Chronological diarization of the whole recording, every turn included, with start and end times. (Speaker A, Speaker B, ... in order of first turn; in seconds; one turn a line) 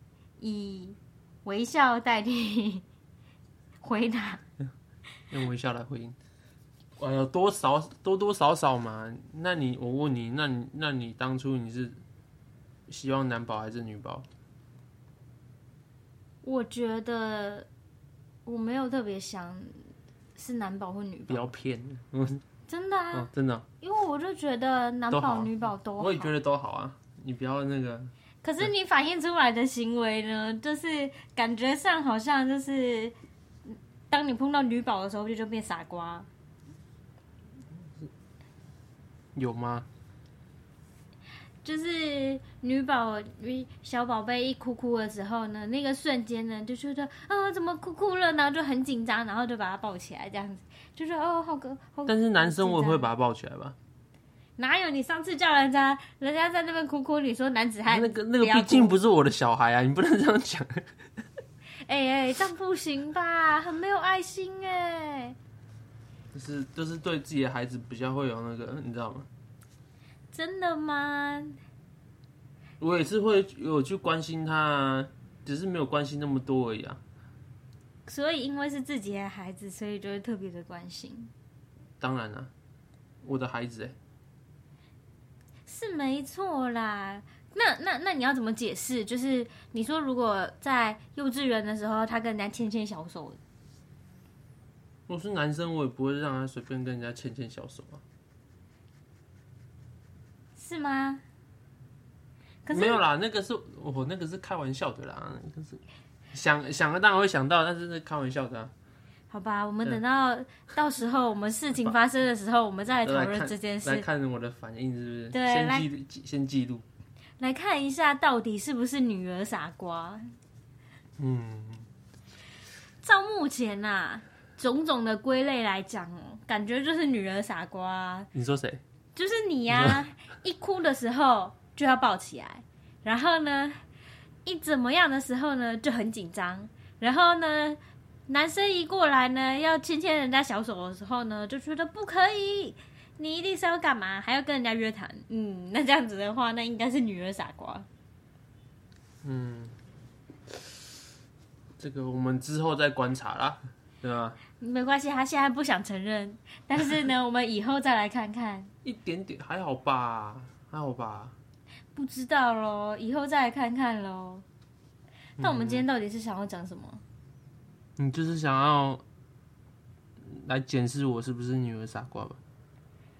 Speaker A: 0.4-2.8
Speaker A: 3.8-4.4
Speaker B: 5.3-6.2
Speaker B: 7.0-12.0
Speaker B: 12.9-14.3
Speaker A: 16.4-17.7
Speaker A: 18.4-19.7
Speaker A: 20.4-21.5
Speaker B: 21.3-22.4
Speaker A: 22.7-23.3
Speaker B: 23.1-23.6
Speaker A: 23.8-26.3
Speaker B: 25.1-28.7
Speaker A: 28.4-33.1
Speaker A: 33.6-36.3
Speaker B: 39.4-39.9
Speaker A: 41.6-53.1
Speaker B: 52.1-53.8
Speaker A: 54.6-59.0
Speaker B: 57.9-60.9
Speaker A: 61.8-65.3
Speaker B: 66.3-69.3
Speaker A: 70.3-71.6
Speaker B: 72.8-77.0
Speaker A: 78.1-81.3
Speaker B: 82.0-82.5
Speaker B: 83.2-84.0
Speaker A: 85.7-93.4
Speaker B: 95.1-98.0
Speaker A: 100.6-101.2
Speaker A: 102.6-103.0
Speaker B: 102.7-105.8
Speaker B: 106.3-108.7
Speaker A: 109.3-114.0
Speaker B: 113.0-116.8
Speaker A: 115.3-115.9
Speaker A: 117.4-120.2
Speaker B: 121.2-121.9
Speaker A: 123.0-128.3
Speaker B: 128.3-128.8
Speaker A: 129.1-133.8
Speaker B: 129.7-130.0
Speaker A: 134.4-147.9
Speaker B: 149.2-149.8
Speaker B: 151.8-154.4
Speaker A: 154.6-158.7
Speaker B: 158.8-161.3
Speaker A: 161.9-164.4
Speaker B: 165.4-165.8
Speaker A: 165.4-167.0
Speaker B: 168.0-169.0
Speaker B: 170.2-172.4